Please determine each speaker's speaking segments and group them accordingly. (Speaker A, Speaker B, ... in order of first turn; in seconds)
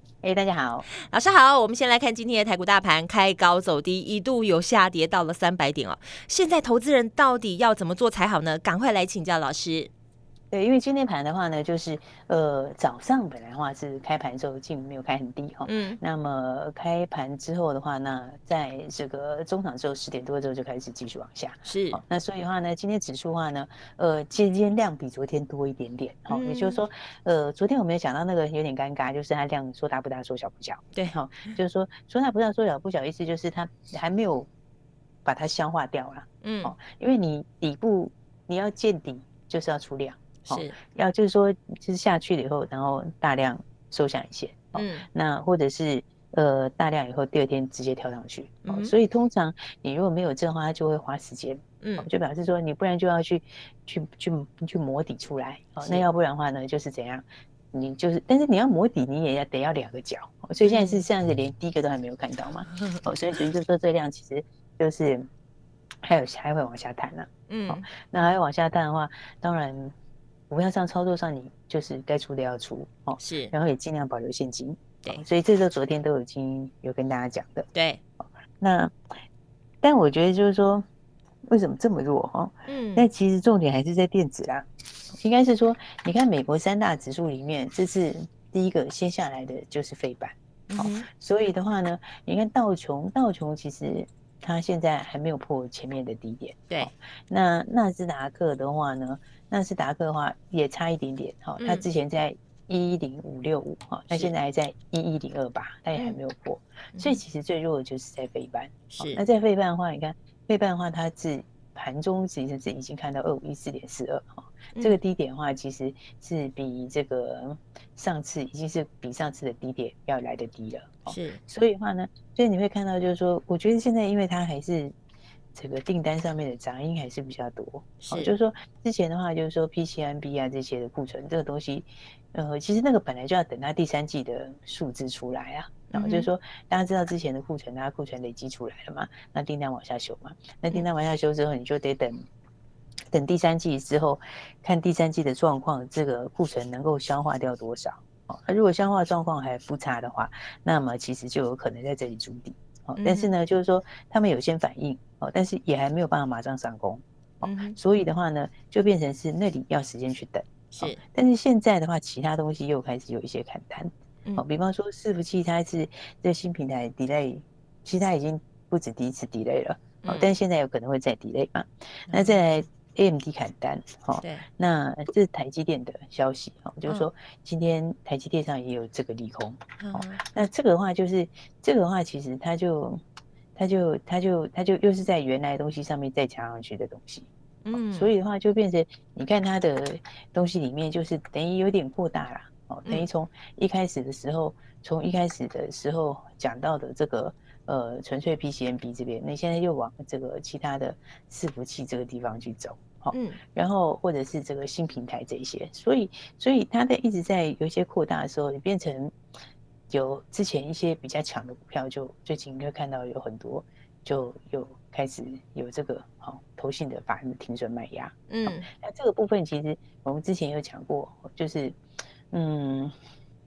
Speaker A: 0.2-0.9, 10.5-34.5, 35.2-65.3, 66.0-69.9, 70.5-77.7, 78.6-79.0, 79.8-80.9, 81.5-84.7, 85.2-125.0, 125.5-142.3, 143.1-183.0, 183.6-209.2, 209.9-221.8, 222.3-222.9
Speaker B: 1.1-9.9, 15.7-16.0, 21.7-22.0, 26.3-26.8, 36.4-36.8, 40.5-40.8, 44.8-45.1, 48.6-49.0, 51.8-52.1, 60.6-61.0, 67.5-67.9, 73.2-73.5, 77.7-78.0, 82.7-83.1, 90.7-91.1, 101.6-101.8, 106.9-107.2, 108.9-109.2, 121.1-121.4, 128.0-128.3, 135.9-136.3, 153.0-153.3, 157.4-157.8, 160.8-161.0, 170.0-170.3, 172.1-172.4, 174.2-174.5, 179.8-180.2, 187.6-188.1, 203.1-203.4, 218.3-218.7